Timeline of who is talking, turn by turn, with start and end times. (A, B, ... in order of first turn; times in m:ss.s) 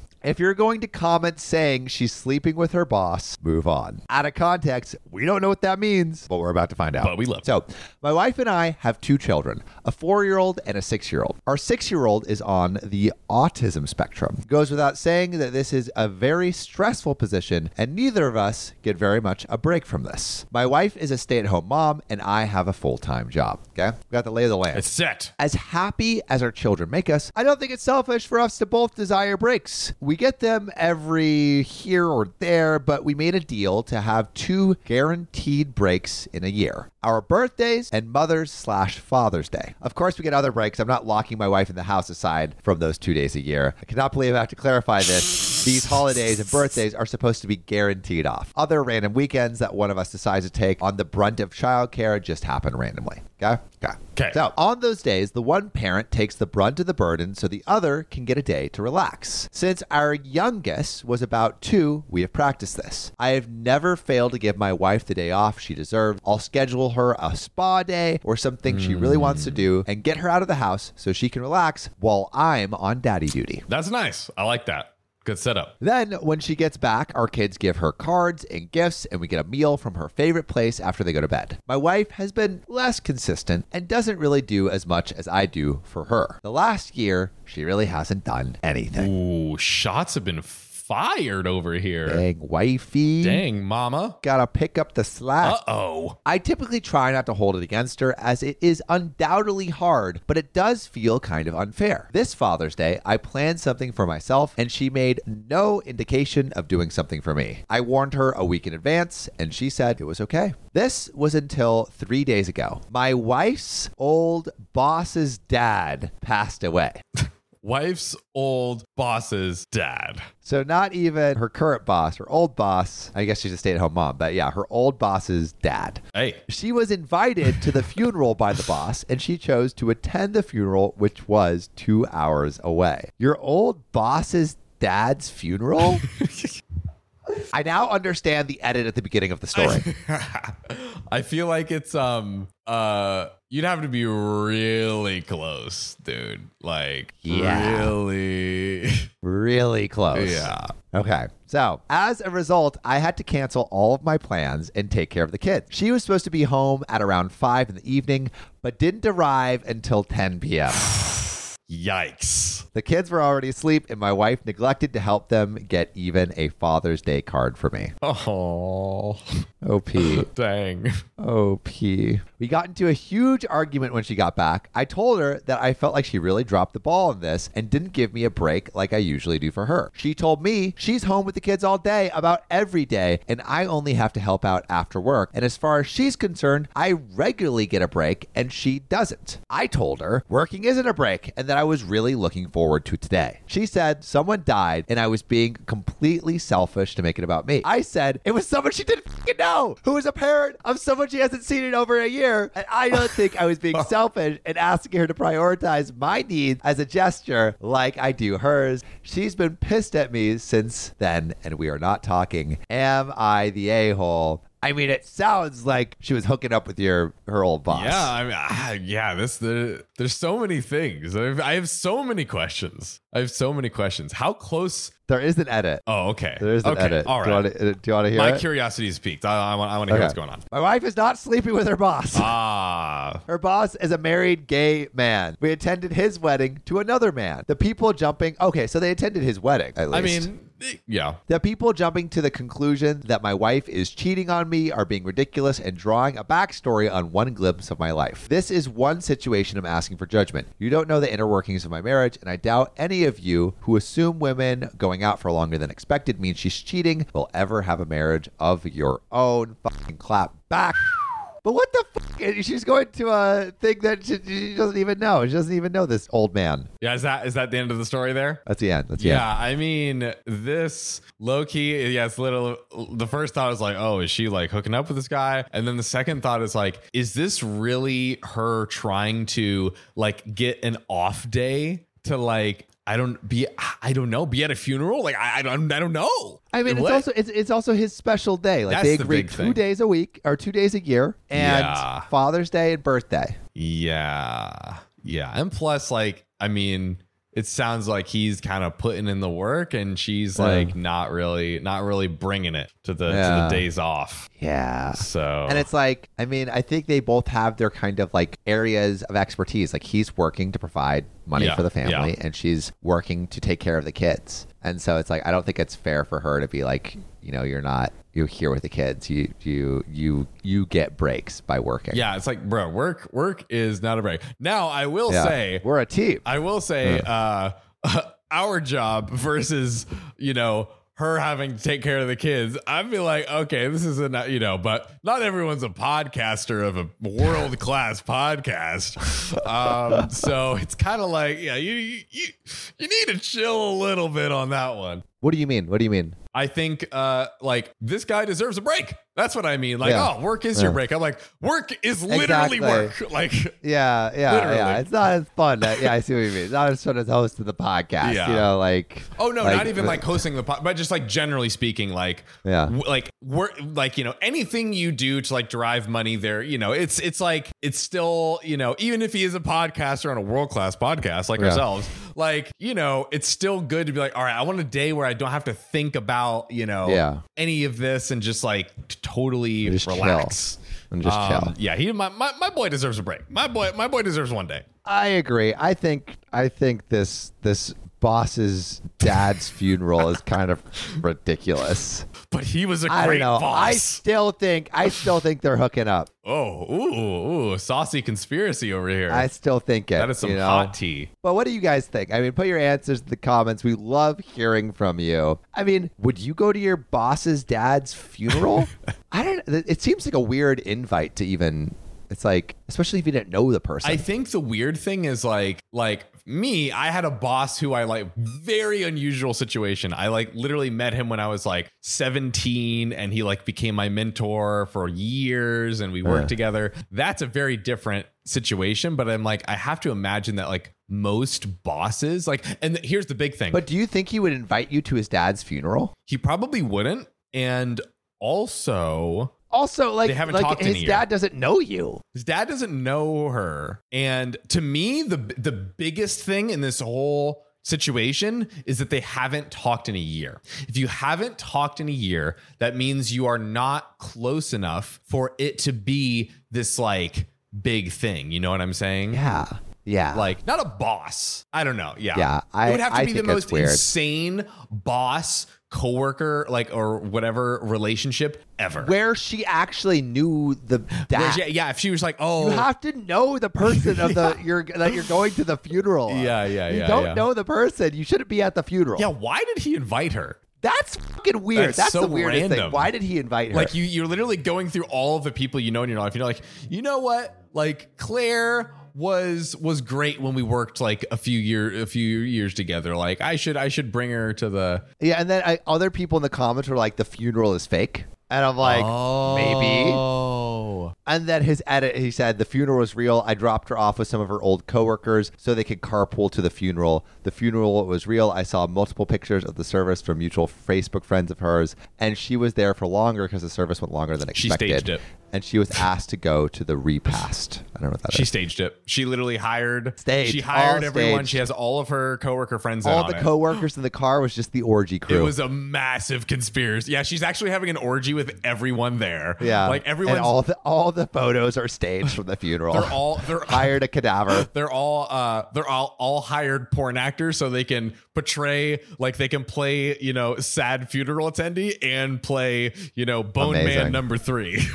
0:00.2-0:24.9 A
0:07.0-0:07.5 B
0:24.7-0:25.3 B
0:25.4-1:13.7 A
1:08.7-1:09.6 B
1:13.7-1:15.7 B
1:15.8-1:29.1 A
1:29.0-1:32.2 B
1:32.1-1:33.4 A
1:33.2-1:34.2 B
1:34.2-1:35.6 A
1:35.4-1:36.2 B
1:36.2-1:57.0 A
1:57.6-2:00.3 B
2:00.4-2:16.0 A
2:06.1-2:06.4 B
2:15.8-2:16.6 B
2:17.5-2:19.9 A
2:19.6-2:29.1 B
2:27.2-2:28.0 A
2:29.2-2:40.9 A
2:30.1-2:30.7 B
2:40.9-2:42.7 B
2:42.7-2:47.9 A
2:48.0-2:49.2 B
2:49.6-2:50.3 A
2:50.0-2:51.0 B
2:51.2-3:38.1 A
3:37.7-3:44.9 B
3:45.1-3:45.8 A
3:45.9-3:47.5 B
3:46.4-3:48.4 A
3:48.1-3:50.4 B
3:49.9-3:52.3 A
3:52.1-3:53.2 B
3:53.3-4:00.3 A
3:59.9-4:01.2 B
4:01.3-4:20.9 A
4:21.4-4:26.7 A
4:26.8-4:28.4 B
4:28.5-4:29.3 A
4:29.0-4:47.1 B
4:46.5-4:53.4 A
4:48.7-4:49.6 B
4:51.3-4:52.1 B
4:53.6-5:04.3 B
5:00.4-5:00.8 A
5:03.1-5:03.7 A
5:04.4-5:22.0 A
5:05.0-5:05.7 B
5:11.4-5:12.1 B
5:21.9-5:25.6 B
5:25.1-5:26.2 A
5:26.2-5:45.0 B
5:45.2-5:46.2 A
5:46.3-5:53.6 B
5:49.8-5:50.8 A
5:52.1-5:52.9 A
5:53.6-6:00.2 A
5:54.3-5:54.9 B
5:55.6-5:56.0 B
5:58.0-5:58.5 B
5:59.2-6:24.6 B
6:02.4-6:02.7 A
6:11.4-6:11.6 A
6:16.8-6:17.2 A
6:19.6-6:20.4 A
6:20.9-6:21.5 A
6:24.8-6:32.1 A
6:29.1-6:29.4 B
6:32.3-6:34.0 B
6:32.9-6:36.1 A
6:36.2-6:39.3 B
6:39.1-6:54.0 A
6:40.0-6:41.1 B
6:53.8-7:13.6 B
7:06.0-7:06.3 A
7:13.5-7:15.9 A
7:16.1-7:19.3 B
7:19.5-7:22.0 A
7:20.0-7:21.1 B
7:22.1-7:39.3 B
7:39.1-7:40.4 A
7:40.1-7:48.9 B
7:42.1-7:43.9 A
7:48.8-7:51.4 A
7:51.1-7:52.7 B
7:52.4-7:59.1 A
7:53.6-7:54.4 B
7:56.1-7:57.3 B
7:59.0-8:00.4 B
8:00.6-8:03.7 A
8:01.5-8:02.9 B
8:03.5-8:14.8 B
8:15.0-8:20.0 A
8:18.6-8:20.9 B
8:21.1-8:38.3 A
8:34.4-8:35.0 B
8:38.1-8:43.6 B
8:40.0-8:41.4 A
8:42.8-8:45.4 A
8:45.1-8:50.4 B
8:49.4-8:54.5 A
8:52.7-9:04.7 B
9:03.4-9:04.0 A